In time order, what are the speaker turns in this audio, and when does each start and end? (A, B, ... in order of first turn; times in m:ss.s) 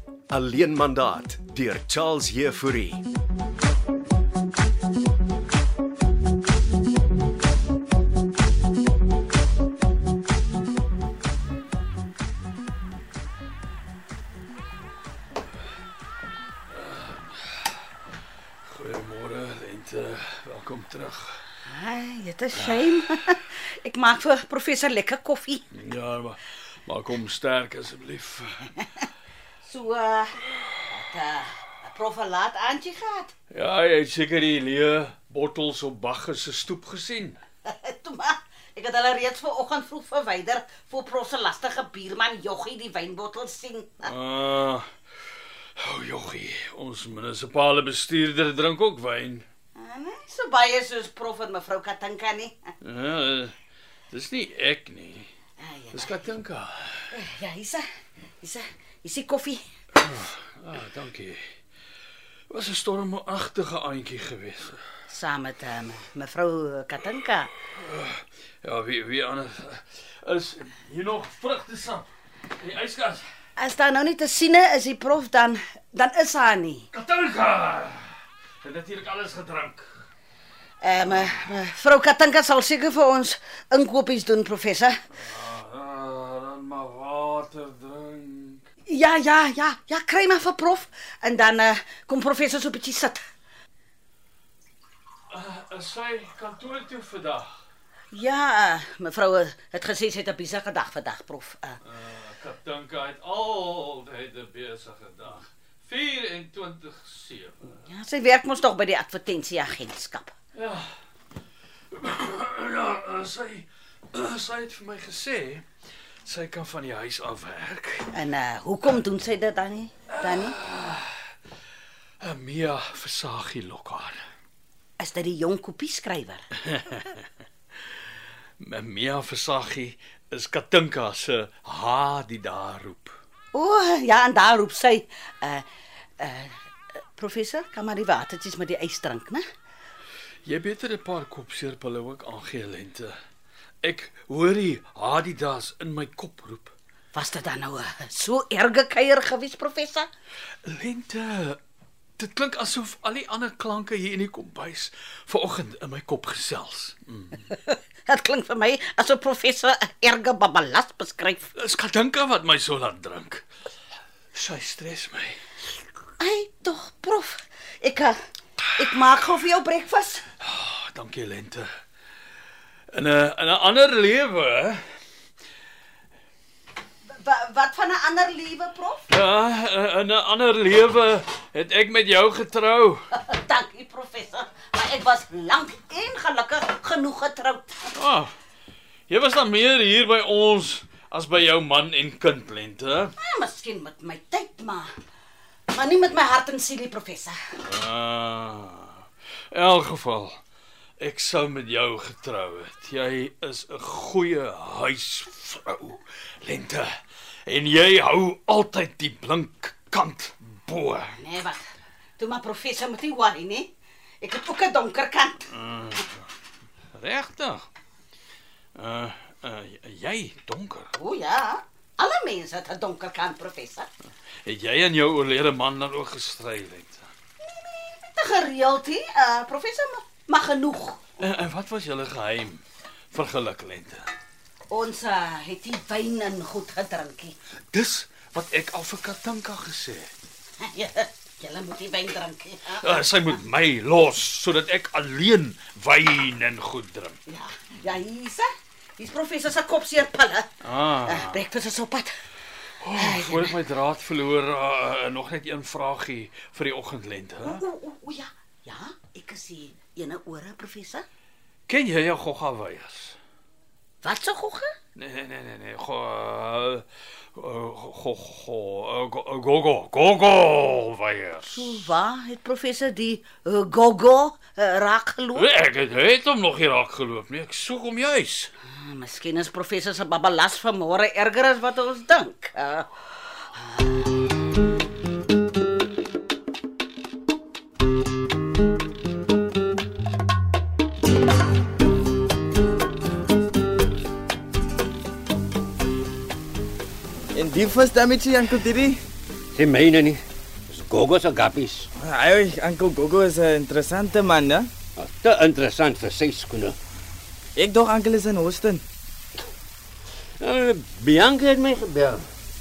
0:00.3-0:03.0 A
0:16.7-0:17.8 B
0:18.6-0:21.4 B
0:21.6-0:25.6 C
0:22.6-0:22.9 B
0:25.7-0:28.8 B
0:29.6-0:33.3 C
0:33.5-0:37.4 B
0:37.6-0:44.1 C
0:44.0-0:44.9 B
0:45.8-0:49.4 B
0:49.8-0:52.6 C
0:52.8-0:53.5 B
0:54.1-0:55.3 B
0:55.6-0:56.3 C
0:55.9-0:57.1 B
0:57.1-0:57.8 C
0:58.4-0:59.6 C
0:59.9-1:01.4 B
1:02.5-1:04.8 B
1:05.1-1:07.5 C
1:07.7-1:13.2 B
1:13.6-1:16.9 C
1:16.9-1:20.0 B
1:20.8-1:25.0 C
1:25.1-1:28.6 B
1:28.9-1:33.2 C
1:35.3-1:37.6 B
1:38.1-1:41.8 C
1:41.8-1:47.6 B
1:47.8-1:50.3 C
1:50.5-1:50.9 B
1:51.9-1:55.6 B
1:56.2-1:58.1 B
1:58.1-2:00.6 C
2:00.1-2:01.3 B
2:02.2-2:04.2 B
2:05.0-2:06.4 C
2:06.6-2:07.2 B
2:08.6-2:13.2 B
2:13.5-2:15.7 C
2:16.2-2:19.4 C
2:20.4-2:23.1 B
2:23.8-2:26.7 B
2:27.1-2:30.1 C
2:30.6-2:31.6 B
2:32.2-2:37.4 B
2:37.4-2:41.5 C
2:41.5-2:43.4 B
2:44.3-2:45.4 B
2:46.2-2:48.2 C
2:48.8-2:50.2 C
2:50.4-2:51.7 B
2:52.9-2:54.8 B
2:57.1-2:59.0 C
2:59.1-3:03.0 B
3:03.1-3:07.9 C
3:07.9-3:08.3 B
3:09.1-3:13.1 B
3:13.2-3:14.9 C
3:15.7-3:17.4 C
3:17.6-3:20.4 B
3:21.0-3:31.1 B
3:31.2-3:31.6 C
3:32.2-3:35.4 C
3:35.5-3:36.2 B
3:36.9-3:37.7 B
3:38.8-3:40.9 B
3:40.9-3:43.9 C
3:44.4-3:47.1 B
3:47.4-3:51.0 C
3:51.2-3:54.1 B
3:54.7-3:57.3 C
3:57.7-4:00.1 B
4:00.6-4:02.9 C
4:02.7-4:07.2 B
4:07.3-4:12.1 C
4:10.6-4:11.4 B
4:12.8-4:17.6 B
4:12.9-4:13.6 C
4:17.4-4:21.0 C
4:21.7-4:23.2 B
4:24.0-4:24.7 C
4:24.9-4:26.8 B
4:27.4-4:31.9 B
4:31.5-4:35.5 C
4:35.4-4:38.5 B
4:38.7-4:43.9 C
4:57.3-4:59.0 D
4:59.5-5:01.9 E
5:02.0-5:04.7 D
5:05.0-5:06.8 E
5:07.6-5:08.8 D
5:10.4-5:12.3 E